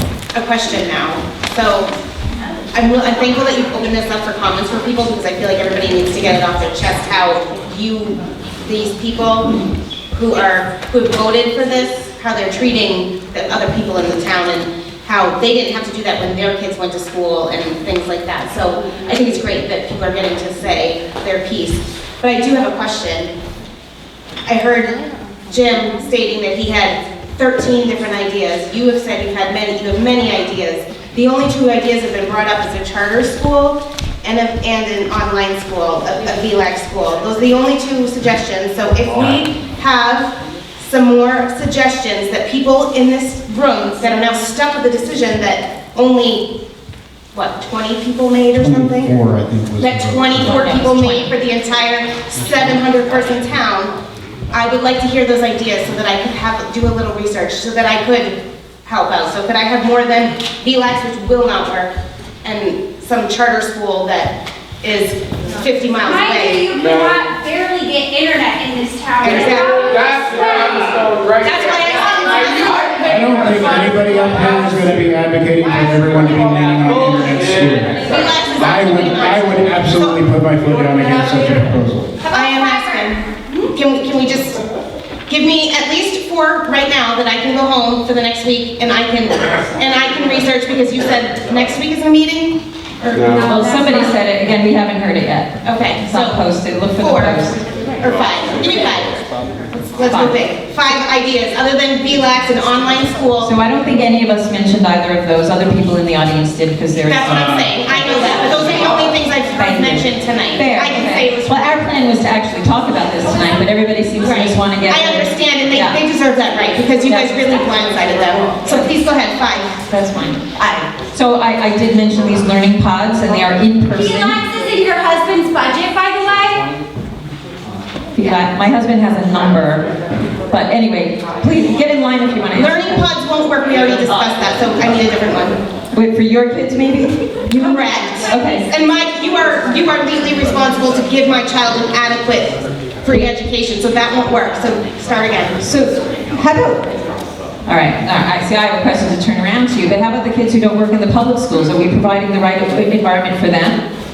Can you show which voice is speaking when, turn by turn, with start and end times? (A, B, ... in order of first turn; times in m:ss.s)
0:00.3-0:01.9 A
0:02.7-0:09.6 A
0:10.1-0:23.3 A
0:24.5-0:46.5 A
0:47.3-0:49.1 A
0:48.6-0:50.6 B
0:49.8-0:53.9 A
0:50.4-0:51.3 C
0:54.5-0:58.4 A
0:58.9-1:01.9 A
1:02.4-1:06.7 A
1:06.0-1:10.8 D
1:06.8-1:07.2 E
1:09.2-1:10.6 A
1:09.2-1:15.1 E
1:11.4-1:13.7 A
1:11.4-1:13.4 D
1:13.0-1:22.2 B
1:15.6-1:18.4 E
1:18.0-1:20.2 A
1:21.1-1:21.4 E
1:22.2-1:23.7 D
1:22.3-1:24.6 A
1:25.3-1:33.3 A
1:33.1-1:34.1 D
1:33.4-1:37.6 C
1:35.6-1:36.4 A
1:37.0-1:37.4 A
1:38.0-1:39.2 A
1:39.8-1:43.5 A
1:40.1-1:40.4 C
1:43.4-1:47.6 C
1:47.0-1:51.8 A
1:49.6-1:56.0 C
1:54.2-1:59.8 A
1:57.1-1:57.3 C
1:58.6-1:58.9 C
1:59.9-2:04.4 C
2:04.0-2:06.7 D
2:08.2-2:09.8 C
2:10.5-2:13.0 C
2:12.5-2:15.6 A
2:15.9-2:17.2 C
2:17.5-2:25.6 A
2:18.3-2:18.7 C
2:25.6-2:26.9 C
2:27.7-2:33.8 C